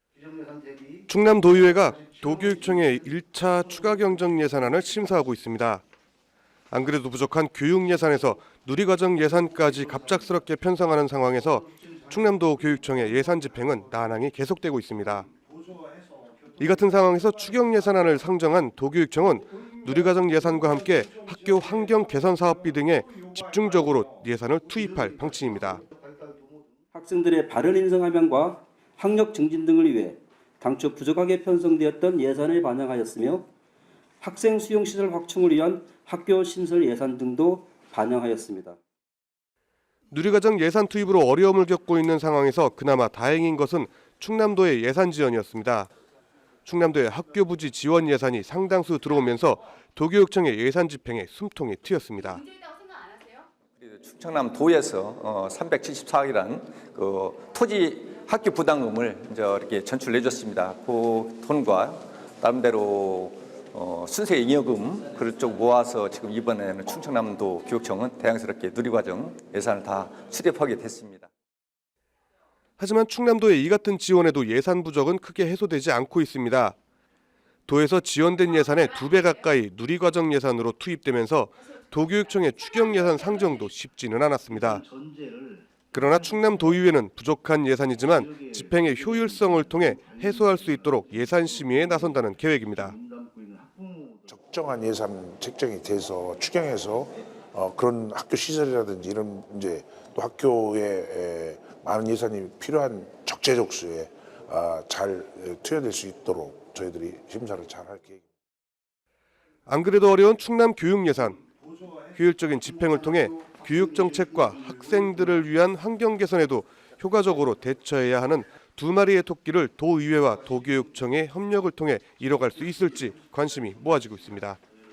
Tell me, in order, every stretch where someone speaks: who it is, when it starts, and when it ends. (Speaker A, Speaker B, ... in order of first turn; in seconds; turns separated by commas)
Speaker A: 1.1-5.8, Speaker A: 6.7-15.3, Speaker A: 16.6-25.8, Speaker B: 26.9-33.5, Speaker B: 34.2-38.8, Speaker A: 40.1-45.9, Speaker A: 46.6-52.4, Speaker C: 53.8-71.3, Speaker A: 72.8-76.7, Speaker A: 77.7-84.8, Speaker A: 85.9-93.0, Speaker D: 94.3-108.2, Speaker A: 109.7-111.4, Speaker A: 112.1-124.6